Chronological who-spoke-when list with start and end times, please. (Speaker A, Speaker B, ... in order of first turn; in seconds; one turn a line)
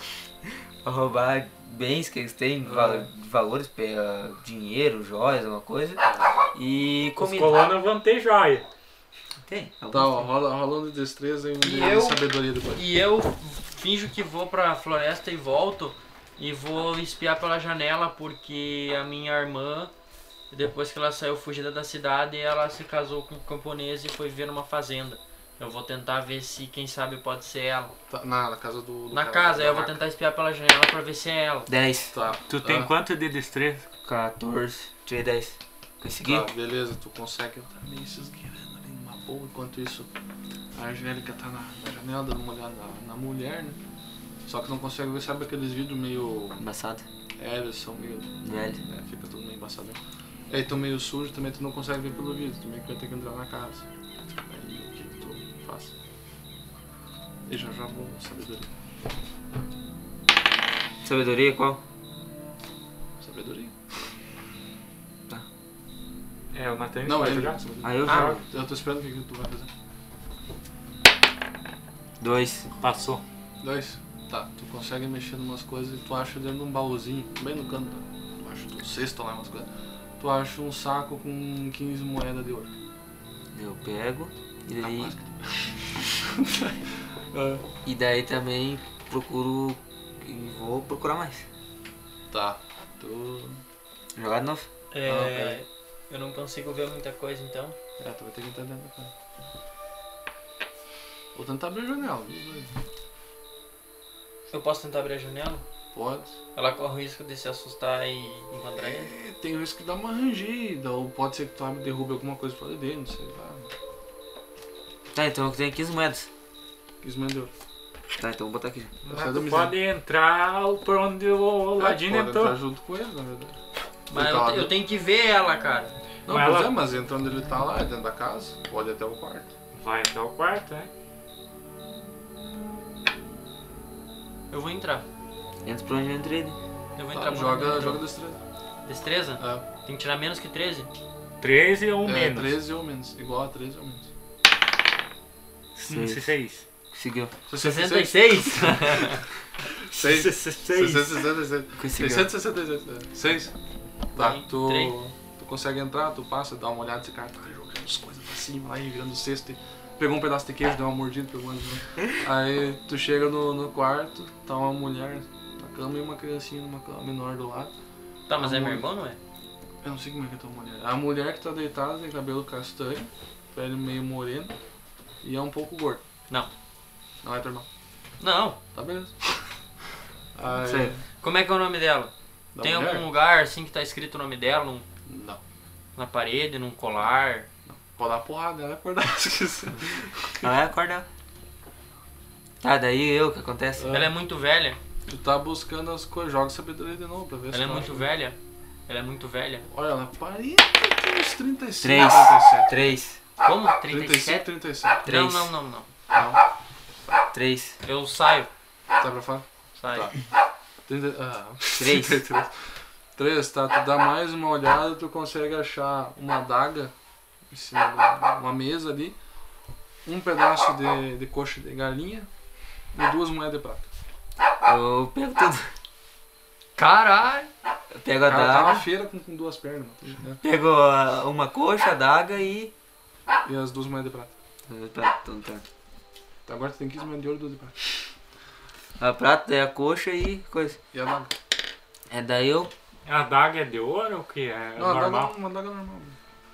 Speaker A: 0.4-6.0
Speaker B: 2.6-3.1
Speaker B: 6.0-6.3
Speaker A: 6.5-7.6
Speaker C: 7.2-8.7
Speaker A: 9.4-10.3
Speaker B: 9.9-12.8
Speaker D: 11.6-12.2
Speaker D: 12.7-19.9
Speaker D: 20.5-27.9
Speaker B: 28.1-30.0
Speaker D: 29.1-31.7
Speaker A: 31.7-32.1
Speaker B: 32.1-32.9
Speaker C: 32.5-33.9
Speaker A: 34.0-36.5
Speaker B: 36.2-40.1
Speaker B: 40.7-43.8
Speaker B: 44.5-46.6
Speaker A: 46.6-47.0
Speaker B: 47.4-55.9
Speaker A: 48.4-48.8
Speaker B: 57.5-58.7
Speaker A: 61.0-61.8
Speaker B: 63.2-63.7
Speaker C: 66.5-68.4
Speaker B: 67.0-69.7
Speaker A: 67.8-68.4
Speaker A: 72.2-72.7
Speaker C: 72.8-73.2
Speaker B: 73.6-79.7
Speaker B: 80.2-82.7
Speaker A: 83.5-85.1
Speaker B: 84.8-87.7
Speaker A: 87.8-91.5
Speaker B: 92.3-93.6
Speaker A: 94.2-94.7
Speaker D: 94.9-97.8
Speaker B: 95.0-95.6
Speaker B: 98.0-99.1
Speaker B: 101.3-102.7
Speaker D: 104.5-105.6
Speaker B: 105.9-106.3
Speaker D: 106.5-109.1
Speaker B: 108.8-113.7
Speaker A: 115.1-116.3
Speaker B: 117.0-117.5
Speaker A: 118.2-119.0
Speaker C: 119.0-122.6
Speaker B: 119.1-119.7
Speaker B: 121.8-123.6
Speaker D: 124.1-125.9
Speaker B: 124.1-124.7
Speaker B: 126.2-129.5
Speaker C: 126.3-126.7
Speaker C: 129.7-130.9
Speaker D: 134.5-135.1
Speaker A: 135.6-136.6
Speaker D: 136.9-138.0
Speaker B: 137.1-138.4
Speaker D: 138.8-140.9
Speaker B: 139.4-139.6
Speaker C: 141.4-142.5
Speaker B: 142.0-144.1
Speaker A: 145.8-146.2
Speaker C: 145.8-146.6
Speaker A: 146.9-147.3
Speaker B: 147.5-149.1
Speaker D: 147.6-149.2
Speaker C: 149.9-151.2
Speaker B: 149.9-153.5
Speaker A: 151.8-152.3
Speaker B: 154.1-167.7
Speaker D: 154.1-154.9
Speaker D: 168.3-169.2
Speaker B: 168.3-168.8
Speaker B: 169.8-174.5
Speaker B: 175.2-176.0
Speaker B: 177.2-177.7
Speaker D: 178.2-178.6
Speaker B: 178.7-179.5
Speaker B: 180.3-181.0
Speaker A: 180.6-180.9
Speaker D: 181.2-184.8
Speaker B: 182.5-183.1
Speaker B: 185.1-185.4
Speaker D: 185.9-187.5
Speaker B: 187.7-190.5
Speaker A: 190.4-191.1
Speaker A: 192.6-193.9
Speaker B: 193.8-194.1
Speaker D: 193.9-194.8
Speaker B: 195.1-198.1
Speaker D: 197.5-198.3
Speaker D: 198.9-199.7
Speaker B: 199.7-202.9
Speaker A: 201.8-203.2
Speaker D: 203.4-204.5
Speaker B: 203.9-205.1
Speaker D: 205.0-205.9
Speaker A: 205.0-205.5
Speaker B: 206.1-206.4
Speaker A: 207.3-207.8
Speaker D: 207.8-208.5
Speaker B: 209.0-210.2
Speaker D: 209.8-210.1
Speaker B: 210.8-212.5
Speaker A: 211.8-212.2
Speaker B: 213.2-216.9
Speaker B: 217.5-219.2
Speaker B: 220.0-222.3
Speaker B: 222.9-223.9
Speaker A: 224.6-225.7
Speaker D: 226.8-227.5
Speaker A: 228.0-228.8
Speaker B: 228.2-230.4
Speaker A: 230.4-232.7
Speaker B: 233.4-234.3
Speaker A: 234.7-235.6
Speaker B: 236.4-238.0
Speaker A: 239.0-240.8
Speaker B: 240.9-241.3
Speaker A: 242.1-242.7
Speaker C: 243.1-245.3
Speaker B: 244.8-246.2